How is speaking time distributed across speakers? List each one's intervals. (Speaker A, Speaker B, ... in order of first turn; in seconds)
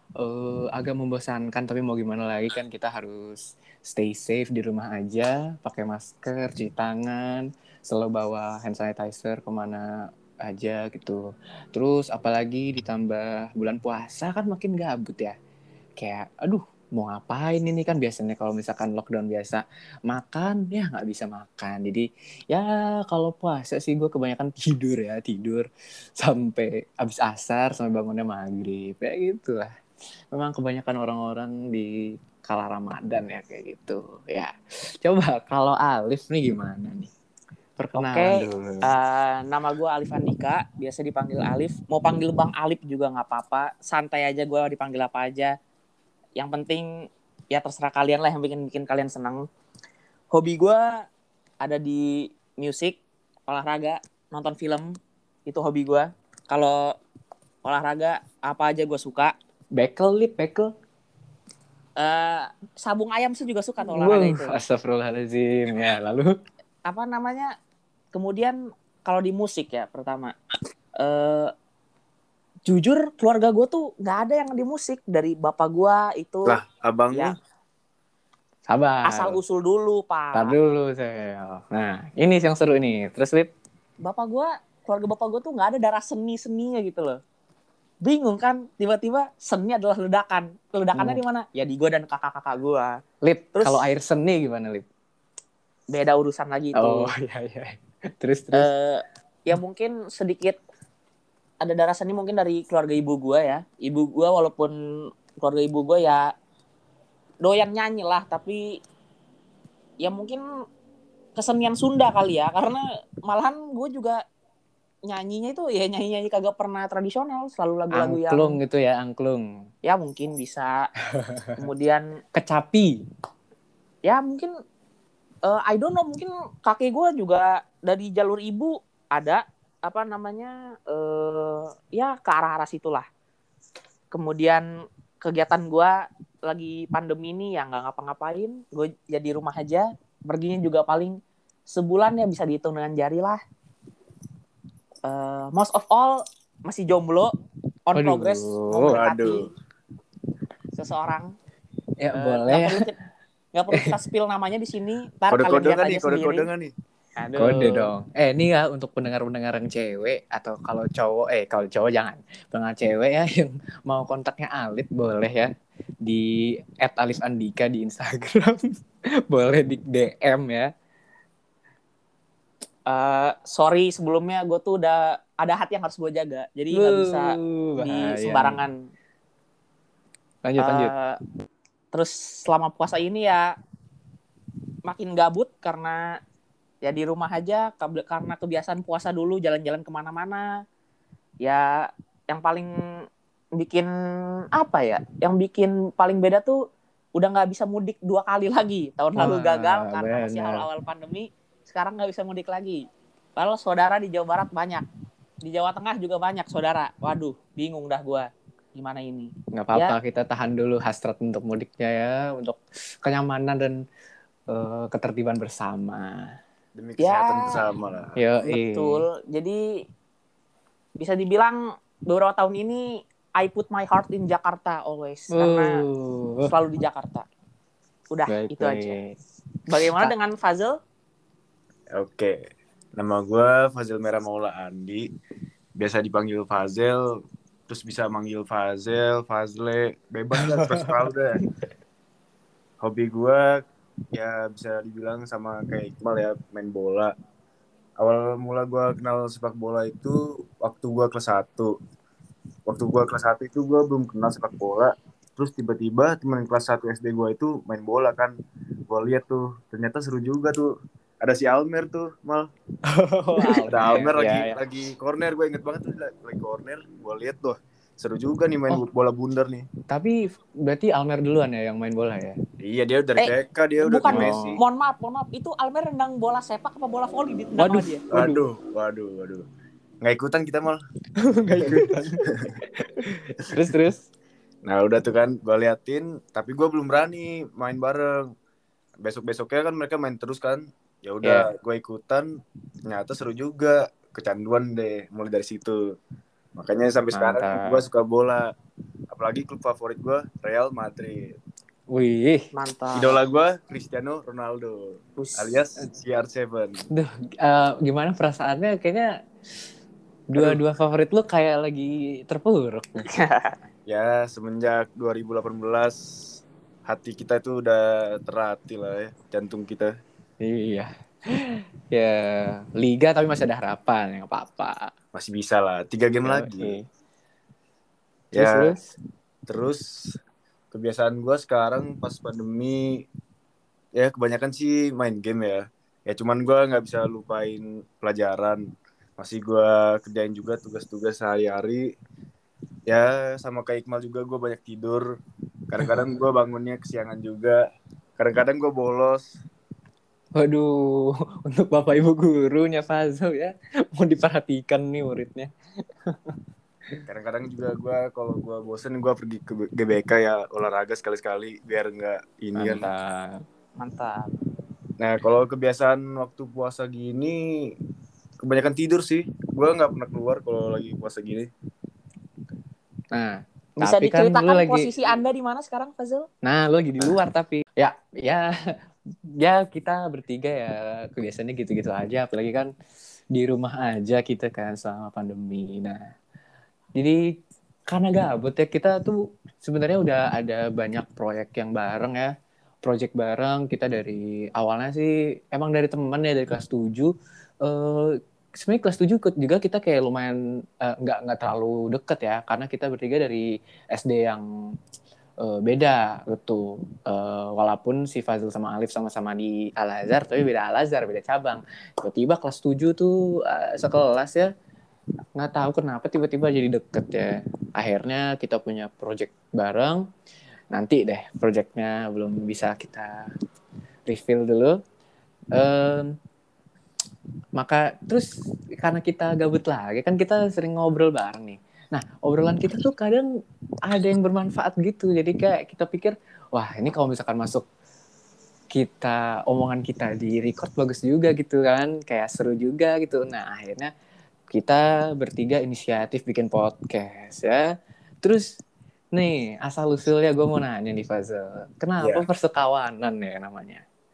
Speaker A: 0.2-9.9, 10.4-11.2, 11.7-15.3, 16.0-25.7, 26.2-29.7, 30.3-37.1, 37.8-38.9, 59.7-60.7, 63.9-66.3, 78.7-79.4, 80.3-83.5, 90.9-91.2, 93.2-94.8, 96.7-98.7, 117.9-119.5, 121.1-121.6, 122.3-123.0, 148.0-149.0, 152.0-152.8, 157.3-165.5, 166.0-168.7, 169.3-170.7, 176.7-178.6, 180.4-180.9, 199.2-200.7, 209.5-213.8, 214.5-216.3, 218.2-219.0, 225.3-226.5, 228.3-229.2, 229.8-230.1, 240.4-241.5, 262.9-264.6, 269.9-272.4, 274.1-274.5, 277.6-278.4, 281.2-284.1, 291.2-291.5, 297.1-297.8, 301.9-302.5, 306.9-309.1, 310.3-313.0, 320.4-324.9, 326.2-326.9, 328.3-328.9, 350.4-355.5, 356.1-356.4, 362.6-363.4, 373.1-374.9, 376.4-378.7, 379.4-382.7, 383.3-386.0, 386.9-387.4, 387.9-392.3, 392.8-397.1, 397.6-404.5, 405.4-414.5, 415.4-420.0, 420.7-423.3, 424.1-424.8, 425.6-426.2, 427.6-433.3, 433.9-437.6, 438.7-443.9, 444.5-447.6, 449.1-453.8
Speaker B: 38.0-45.5, 46.4-46.9, 47.5-49.4, 50.3-50.9, 51.6-54.9, 55.5-56.8, 57.6-59.3, 62.0-64.5, 66.9-67.5, 68.1-70.3, 71.0-71.5, 72.7-76.6, 79.0-80.5, 84.0-87.2, 88.0-93.0, 93.5-93.8, 95.9-97.1, 98.5-100.6, 101.6-104.8, 105.4-106.3, 107.4-108.6, 110.0-110.4, 111.3-114.2, 115.1-118.6, 119.8-120.8, 121.5-122.0, 124.0-124.5, 125.5-133.0, 134.1-134.6, 135.2-135.9, 136.5-141.2, 141.7-143.4, 145.1-147.3, 147.9-149.5, 150.7-151.3, 152.1-152.9, 153.5-156.5, 157.2-157.9, 172.9-178.7, 180.6-181.2, 181.9-183.5, 184.8-186.0, 186.8-190.5, 191.4-191.7, 192.3-192.7, 193.6-193.9, 194.5-196.6, 197.2-202.8, 203.3-204.8, 205.4-209.9, 217.0-217.5, 218.4-219.6, 221.0-222.8, 223.4-225.8, 226.4-227.2, 228.1-229.0, 229.7-230.8, 273.2-278.0, 302.5-303.2, 305.2-305.6, 313.0-313.6, 363.8-364.3, 373.8-376.3
Speaker C: 76.5-77.3, 148.9-149.5, 155.3-156.7, 216.8-218.2, 231.9-232.4, 233.0-235.1, 235.8-241.4, 242.8-243.6, 244.1-247.1, 248.0-251.7, 252.7-258.4, 258.9-262.5, 263.6-269.7, 272.6-274.6, 278.1-279.5, 280.0-280.8, 281.6-282.5, 284.6-288.3, 289.0-296.0, 296.6-298.5, 299.1-301.4, 302.9-306.9, 310.4-310.6, 313.9-319.9, 325.1-326.8, 328.3-328.8, 329.5-330.2, 330.7-333.1, 334.0-341.9, 342.9-345.1, 345.7-347.6, 348.2-349.2, 357.1-362.9, 365.0-367.7, 368.4-371.5, 452.0-452.3